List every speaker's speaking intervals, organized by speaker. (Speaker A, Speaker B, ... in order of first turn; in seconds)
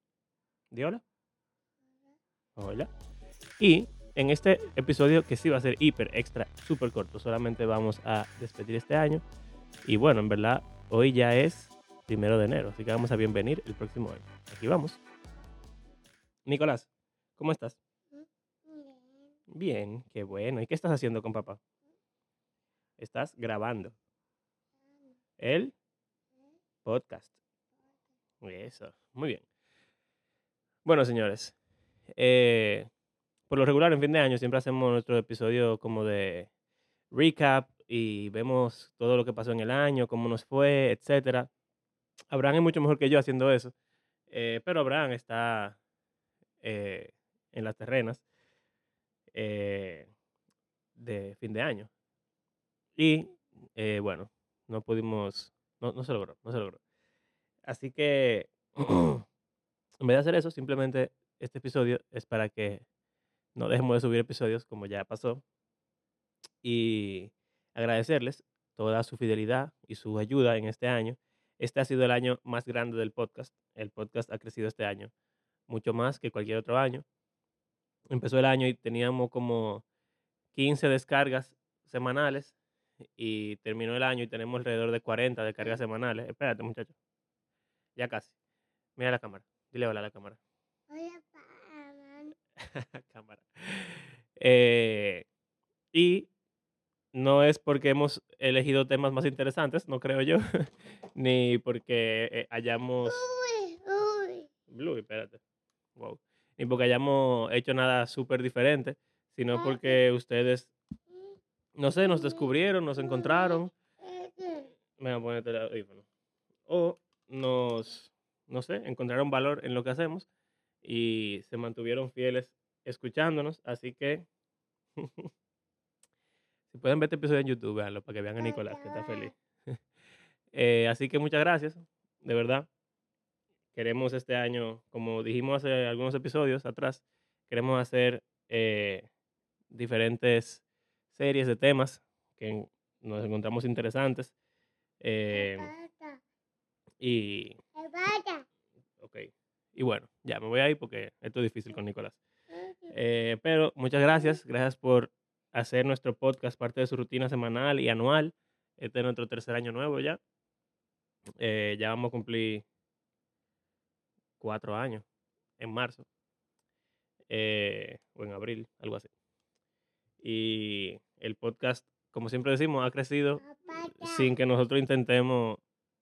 Speaker A: 0.7-1.0, 2.5-2.9, 3.6-9.2, 9.8-15.0, 16.4-17.8, 19.5-21.6, 23.0-23.9, 25.4-25.7, 26.8-27.3, 28.4-29.4, 30.8-31.5, 32.2-32.9, 33.5-36.5, 37.1-41.5, 42.3-43.7, 44.3-45.8, 46.6-48.2, 49.3-50.1, 51.0-51.9, 53.0-56.8, 57.6-59.2, 60.0-62.8, 63.5-65.4, 66.6-75.1, 75.7-77.0, 78.1-79.8, 80.5-82.5, 83.2-86.9, 88.0-88.3, 89.0-90.4, 92.7-95.2, 95.9-96.3, 97.1-100.4, 101.1-103.2, 104.7-105.4, 106.0-110.7, 111.8-113.7, 115.0-116.0, 116.7-120.3, 120.8-124.3, 125.0-125.3, 126.7-129.4, 130.5-132.7, 133.7-139.1, 139.7-144.3, 145.0-145.7, 147.0-147.6, 149.0-152.2, 152.9-160.2, 161.4-162.7, 164.4-165.0, 165.6-166.1, 167.3-169.1, 170.2-175.6
Speaker B: 18.1-19.3, 90.9-92.3, 103.1-104.5, 109.5-110.0, 112.0-112.5, 113.0-114.7, 128.4-129.3, 145.3-146.2, 147.8-148.4, 152.5-152.9, 173.4-174.3